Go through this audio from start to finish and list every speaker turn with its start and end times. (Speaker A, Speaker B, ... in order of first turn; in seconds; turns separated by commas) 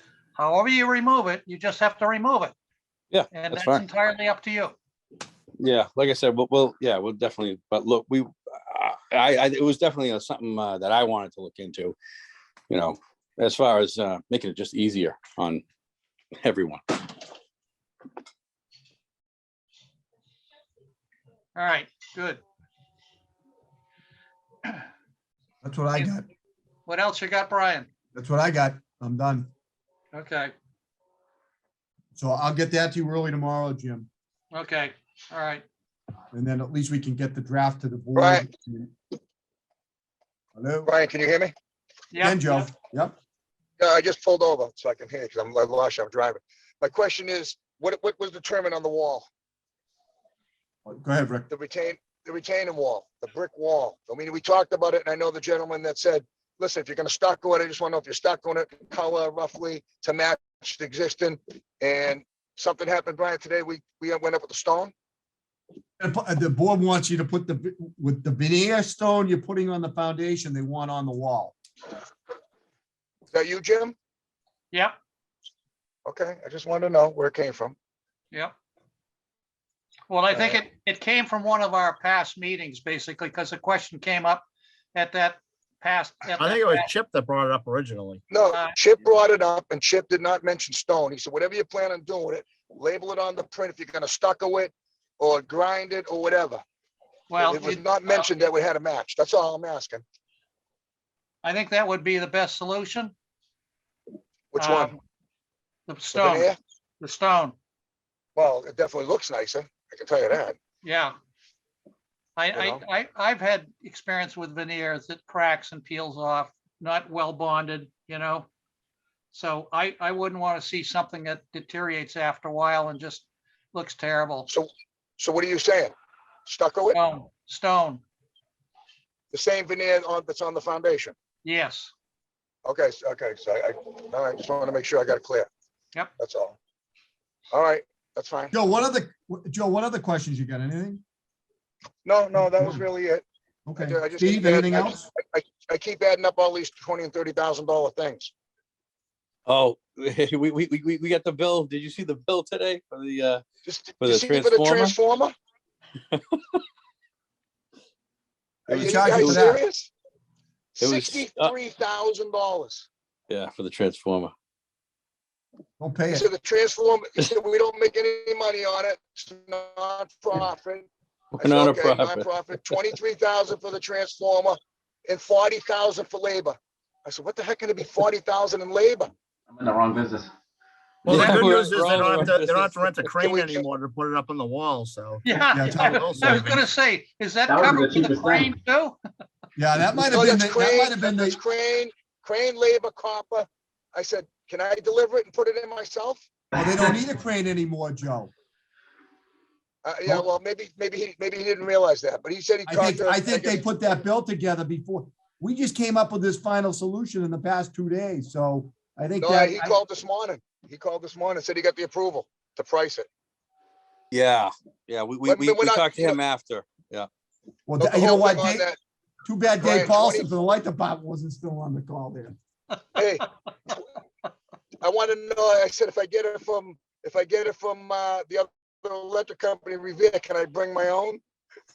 Speaker A: 0.4-2.5, Speaker B: 3.1-3.9, Speaker A: 3.3-4.8, Speaker B: 5.6-12.0, Speaker B: 12.7-15.6, Speaker B: 16.4-17.1, Speaker A: 21.6-22.4, Speaker C: 25.6-26.3, Speaker A: 26.9-27.9, Speaker C: 28.1-29.5, Speaker A: 30.1-30.5, Speaker C: 32.1-34.1, Speaker A: 34.5-35.6, Speaker C: 36.3-38.9, Speaker D: 38.1-38.5, Speaker C: 40.5-40.9, Speaker D: 40.9-41.5, Speaker A: 42.1-42.7, Speaker C: 42.2-43.1, Speaker D: 43.8-49.3, Speaker C: 50.9-51.5, Speaker D: 51.5-64.9, Speaker C: 66.0-71.6, Speaker D: 73.3-74.0, Speaker D: 76.1-77.8, Speaker A: 80.1-84.4, Speaker D: 80.3-80.6, Speaker A: 85.0-86.9, Speaker E: 86.4-88.2, Speaker D: 88.3-96.6, Speaker A: 97.3-98.3, Speaker D: 97.4-100.0, Speaker A: 101.4-103.1, Speaker D: 104.5-104.9, Speaker A: 104.6-105.0, Speaker A: 105.9-107.6, Speaker D: 106.1-106.6, Speaker D: 108.4-110.6, Speaker A: 110.8-111.2, Speaker A: 112.4-118.5, Speaker D: 112.5-112.8, Speaker A: 119.3-124.5, Speaker D: 124.5-125.9, Speaker D: 126.5-127.0, Speaker A: 126.9-128.0, Speaker D: 129.3-131.2, Speaker A: 131.4-131.9, Speaker D: 132.7-135.5, Speaker D: 136.2-136.6, Speaker D: 137.5-138.6, Speaker C: 138.5-141.0, Speaker D: 142.1-143.2, Speaker C: 142.3-142.8, Speaker C: 143.7-145.1, Speaker D: 143.8-148.3, Speaker B: 149.5-153.4, Speaker D: 153.7-155.3, Speaker B: 154.0-155.0, Speaker B: 156.1-156.6, Speaker D: 158.7-159.9, Speaker B: 158.7-159.5, Speaker C: 158.7-159.6, Speaker D: 160.8-162.9, Speaker B: 160.8-161.5, Speaker B: 163.3-164.3, Speaker C: 165.8-166.3, Speaker D: 166.1-170.9, Speaker B: 171.3-172.9, Speaker D: 171.4-179.1, Speaker F: 179.5-180.3, Speaker E: 181.0-186.7, Speaker B: 181.1-183.1, Speaker A: 181.1-181.6, Speaker D: 183.2-183.6, Speaker A: 185.2-189.0, Speaker C: 185.5-186.5, Speaker F: 187.5-188.5, Speaker C: 189.6-191.4, Speaker D: 190.1-196.3, Speaker F: 196.5-197.0, Speaker C: 196.6-198.3, Speaker D: 199.8-203.6, Speaker C: 202.7-209.7, Speaker D: 209.2-213.1, Speaker B: 214.1-217.1, Speaker D: 215.2-216.2, Speaker C: 217.7-218.7, Speaker D: 217.8-218.8, Speaker C: 219.2-222.3, Speaker D: 219.6-220.3, Speaker D: 223.0-223.8, Speaker D: 224.8-231.2